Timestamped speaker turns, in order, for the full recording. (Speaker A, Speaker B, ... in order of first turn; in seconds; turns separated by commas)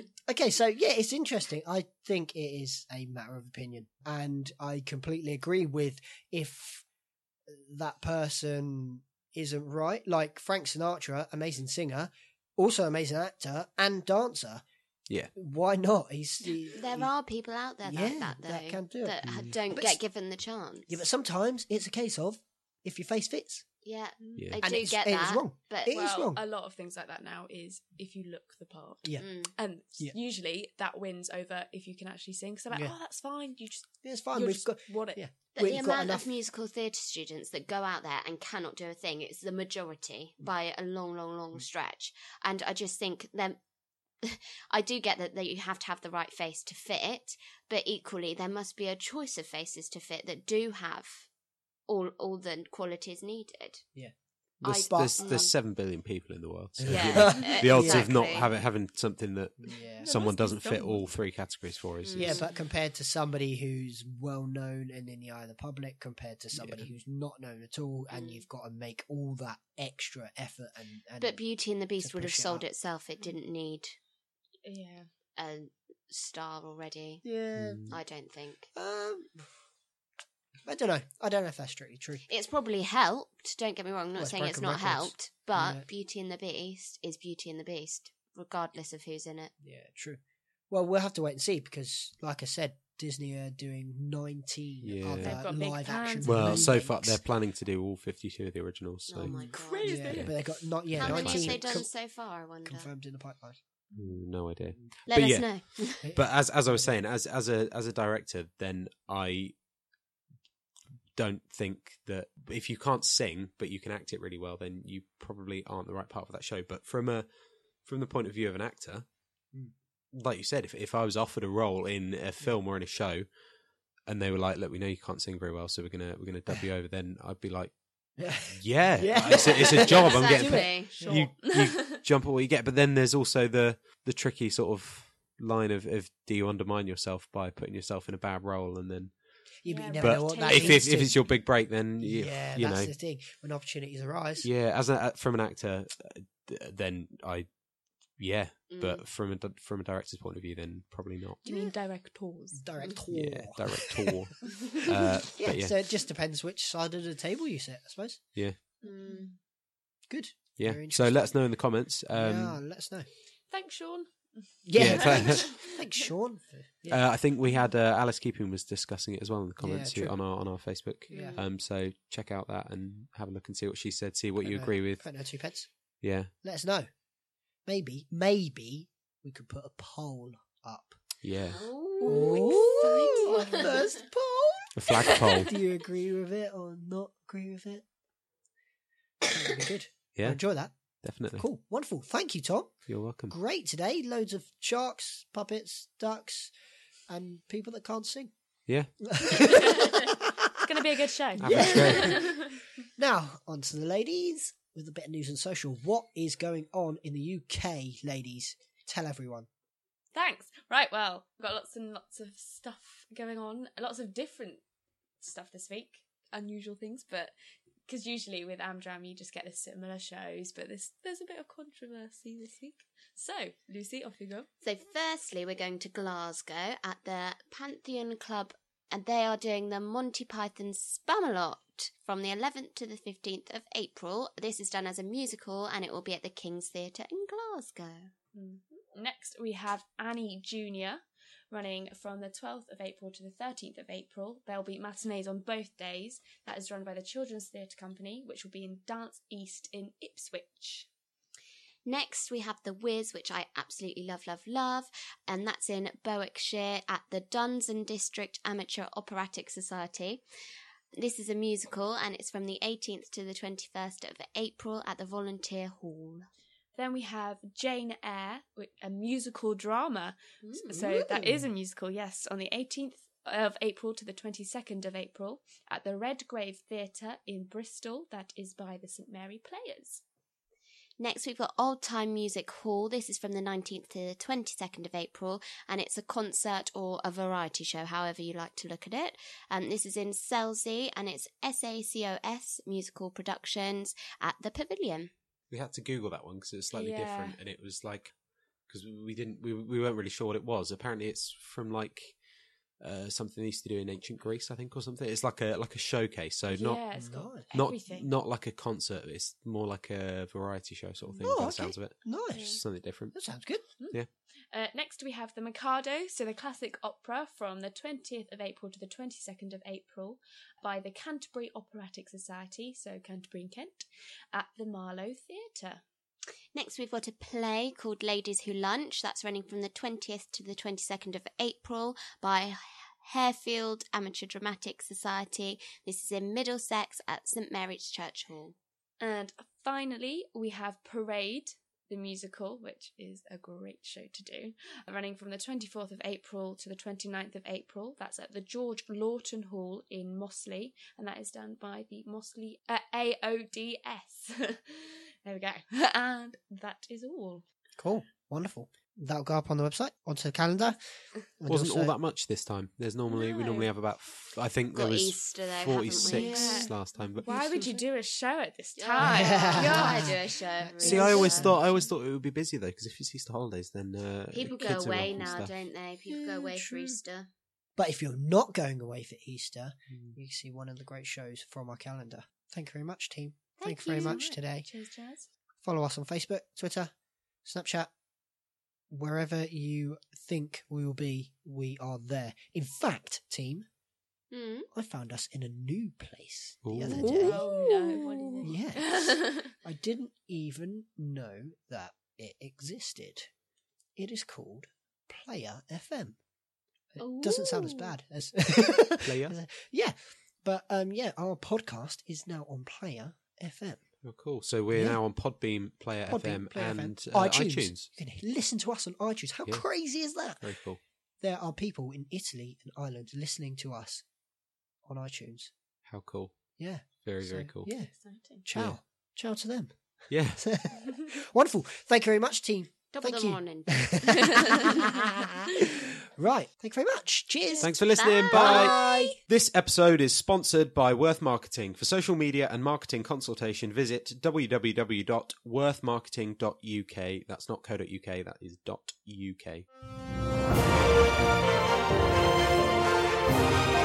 Speaker A: 0.3-6.8, Speaker A: 7.5-14.6, Speaker A: 15.3-17.1, Speaker B: 16.7-21.0, Speaker A: 17.8-20.0, Speaker A: 20.9-23.6, Speaker B: 23.8-25.9, Speaker C: 24.2-24.6, Speaker D: 24.4-24.6, Speaker A: 24.6-26.4, Speaker C: 25.9-35.3, Speaker B: 29.2-29.5, Speaker A: 32.7-33.0, Speaker A: 34.0-36.3, Speaker B: 35.5-43.6, Speaker B: 44.2-51.3, Speaker B: 51.9-53.9, Speaker A: 53.9-55.4, Speaker B: 54.6-55.5, Speaker D: 54.6-62.4, Speaker B: 56.8-58.5, Speaker A: 56.9-58.3, Speaker A: 59.6-60.1, Speaker C: 60.0-61.1, Speaker B: 62.0-62.5, Speaker A: 62.1-71.4, Speaker D: 66.5-66.9, Speaker B: 68.1-68.4, Speaker B: 71.2-74.0, Speaker A: 72.0-72.6, Speaker C: 74.6-75.1, Speaker B: 75.3-77.2, Speaker A: 77.2-77.9, Speaker D: 77.5-77.9, Speaker B: 77.9-78.7, Speaker A: 78.7-79.5, Speaker A: 80.6-82.2, Speaker B: 82.3-89.5, Speaker A: 84.2-85.8, Speaker A: 89.6-97.2, Speaker D: 94.8-95.4, Speaker C: 95.2-96.8, Speaker D: 96.2-99.5, Speaker B: 99.1-100.2, Speaker A: 99.2-101.9, Speaker C: 99.4-100.3, Speaker B: 100.9-102.9, Speaker D: 100.9-101.8, Speaker A: 102.6-103.6, Speaker D: 103.9-109.5, Speaker B: 105.1-106.1, Speaker A: 106.0-106.9, Speaker D: 111.2-117.2, Speaker D: 117.8-119.0, Speaker D: 120.1-123.3, Speaker D: 124.1-127.7, Speaker A: 128.2-131.3, Speaker D: 128.5-139.1, Speaker B: 129.3-131.1, Speaker C: 130.9-132.0, Speaker A: 139.6-141.3, Speaker C: 139.6-141.0, Speaker D: 140.0-142.9, Speaker A: 142.0-144.5, Speaker D: 144.4-147.5, Speaker D: 148.2-151.4, Speaker B: 148.7-149.0, Speaker C: 151.4-152.8, Speaker A: 151.4-151.7, Speaker A: 152.5-154.3, Speaker D: 153.1-155.8, Speaker A: 155.3-158.3, Speaker B: 158.8-159.3, Speaker C: 158.8-159.3, Speaker A: 160.1-161.3, Speaker D: 160.6-162.6, Speaker A: 162.1-163.1, Speaker C: 163.5-166.0, Speaker A: 164.7-167.0, Speaker D: 164.7-165.6, Speaker D: 166.9-175.1, Speaker A: 169.6-170.2, Speaker A: 171.1-171.4, Speaker B: 171.1-171.4, Speaker A: 174.4-175.7, Speaker D: 176.0-176.3, Speaker A: 176.4-176.9, Speaker A: 177.7-181.0, Speaker D: 181.2-181.6, Speaker B: 181.4-183.8, Speaker C: 182.0-183.9, Speaker A: 182.0-187.8, Speaker D: 184.8-185.5, Speaker C: 185.2-185.5, Speaker A: 189.2-190.7, Speaker D: 190.1-190.4, Speaker D: 191.0-191.4, Speaker A: 191.3-196.5, Speaker D: 192.9-193.3, Speaker A: 197.1-198.3, Speaker A: 199.0-202.4, Speaker C: 199.5-200.0, Speaker C: 200.6-202.6, Speaker D: 201.4-202.3, Speaker A: 203.0-209.5, Speaker C: 210.1-214.6, Speaker C: 215.2-217.3, Speaker C: 217.9-224.5, Speaker B: 224.6-238.1, Speaker C: 238.3-250.9, Speaker B: 251.8-260.2, Speaker B: 260.9-266.2, Speaker C: 266.7-280.0, Speaker B: 270.4-270.8, Speaker A: 270.7-271.5, Speaker B: 281.0-295.1, Speaker D: 295.5-298.1, Speaker C: 296.7-297.4, Speaker D: 298.7-302.2, Speaker D: 302.8-306.8, Speaker C: 306.5-308.1, Speaker A: 307.0-307.4, Speaker D: 307.5-313.3, Speaker C: 311.0-311.3, Speaker A: 311.2-312.6, Speaker C: 312.3-312.6, Speaker A: 313.1-313.6, Speaker C: 313.8-325.8, Speaker B: 326.5-338.6, Speaker C: 339.0-357.4, Speaker A: 357.8-360.8, Speaker A: 361.4-361.9, Speaker D: 361.5-367.3, Speaker C: 363.1-363.7, Speaker B: 364.7-366.7, Speaker C: 365.9-370.2, Speaker B: 368.8-371.5, Speaker A: 369.0-371.6, Speaker D: 370.8-375.5, Speaker C: 370.9-371.7, Speaker B: 374.3-377.3, Speaker A: 376.1-377.0, Speaker A: 377.8-384.7, Speaker C: 383.6-385.3, Speaker B: 383.7-384.2, Speaker A: 385.6-386.9, Speaker A: 387.4-387.9, Speaker A: 388.9-393.6, Speaker B: 394.3-394.7, Speaker A: 394.7-397.5, Speaker D: 396.6-397.3, Speaker B: 397.1-398.5, Speaker C: 397.2-399.5, Speaker A: 398.4-403.3, Speaker A: 403.9-406.2, Speaker A: 406.9-413.8, Speaker B: 407.0-407.9, Speaker D: 409.0-409.4, Speaker D: 414.0-417.9, Speaker A: 414.7-415.0, Speaker A: 416.1-420.5, Speaker D: 420.4-420.8, Speaker A: 421.2-424.0, Speaker A: 424.8-425.5, Speaker D: 425.9-426.3, Speaker A: 426.6-427.9, Speaker D: 427.0-427.7, Speaker C: 427.9-428.4, Speaker A: 428.4-429.8, Speaker D: 430.1-430.4, Speaker A: 430.3-439.2, Speaker B: 432.9-434.9, Speaker D: 437.6-449.6, Speaker B: 437.9-439.1